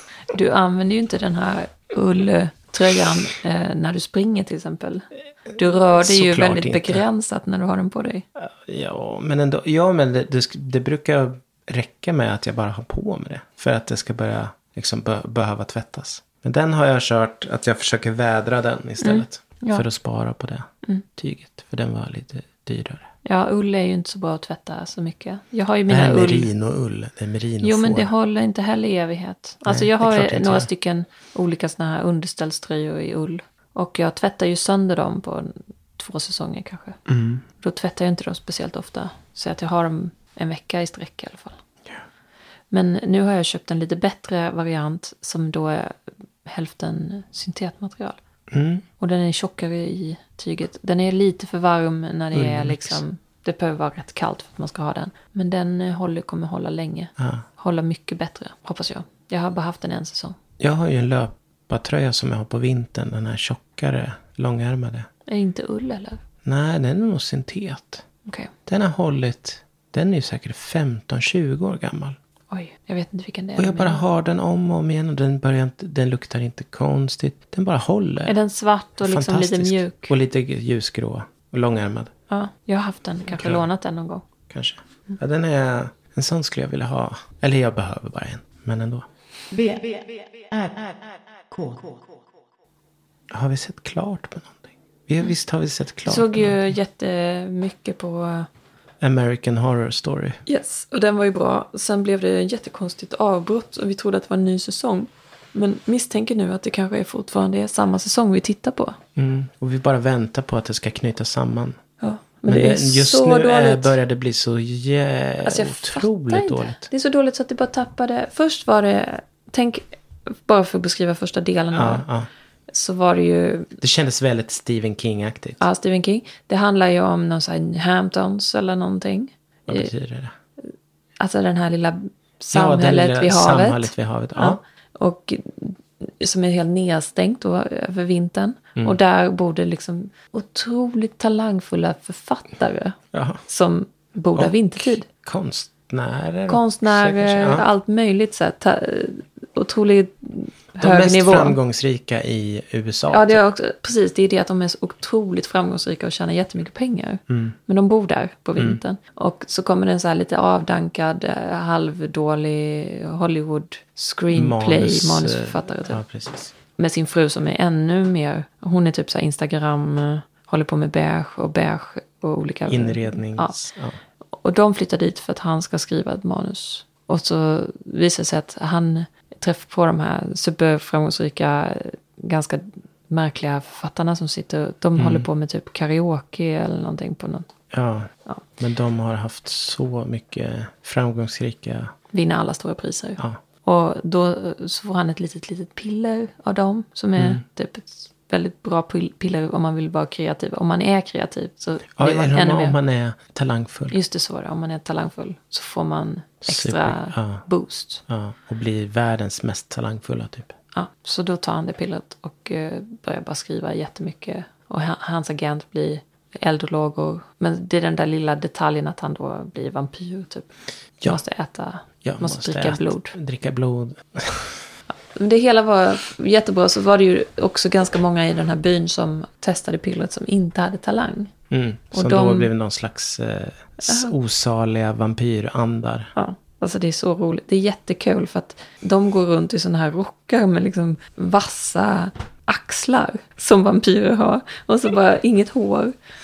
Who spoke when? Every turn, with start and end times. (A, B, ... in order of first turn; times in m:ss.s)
0:00.3-0:08.2 A
0:05.9-0:07.0 B
0:08.4-0:23.1 B
0:19.0-0:19.8 A
0:23.2-0:26.5 A
0:25.9-0:28.1 B
0:27.6-0:37.0 A
0:29.6-0:30.7 B
0:37.1-0:37.4 B
0:37.6-0:41.6 A
0:42.7-0:48.2 A
0:48.5-0:48.8 B
0:49.0-1:00.4 A
0:52.3-0:53.0 B
0:57.2-0:57.4 B
1:00.6-1:05.1 B
1:05.3-1:06.2 A
1:06.4-1:08.0 B
1:08.2-1:08.5 A
1:08.7-1:12.2 B
1:12.5-1:14.0 A
1:13.6-1:18.3 B
1:18.2-1:20.1 A
1:19.0-1:22.1 B
1:22.3-1:24.2 A
1:23.3-1:23.6 B
1:24.5-1:29.1 B
1:29.5-1:32.2 C
1:33.3-1:36.6 B
1:36.0-1:38.5 A
1:39.0-1:40.4 B
1:40.5-1:49.0 A
1:49.2-1:51.8 B
1:52.0-1:54.0 A
1:52.5-1:56.9 B
1:55.4-2:02.1 A
2:01.7-2:02.3 B
2:02.7-2:03.7 A
2:03.8-2:05.6 B
2:05.6-2:09.9 A
2:09.7-2:10.3 B
2:11.2-2:25.0 A
2:12.5-2:14.6 B
2:23.1-2:23.4 B
2:24.4-2:27.6 B
2:26.5-2:31.6 A
2:30.8-2:33.4 B
2:33.1-2:46.0 A
2:37.3-2:37.6 B
2:44.3-2:46.5 B
2:46.8-2:53.6 A
2:52.7-2:54.0 B
2:54.3-3:07.5 A
3:05.0-3:05.2 B
3:07.7-3:11.9 B
3:12.1-3:22.8 A
3:17.2-3:17.4 B
3:22.0-3:24.0 B
3:23.9-3:28.0 A
3:26.4-3:27.4 B
3:28.1-3:30.5 B
3:30.7-3:40.5 A
3:41.0-3:43.1 A
3:42.0-3:44.7 B
3:45.1-3:51.3 A
3:51.5-3:56.1 B
3:51.9-3:52.5 A
3:53.8-3:54.1 A
3:56.2-4:05.9 A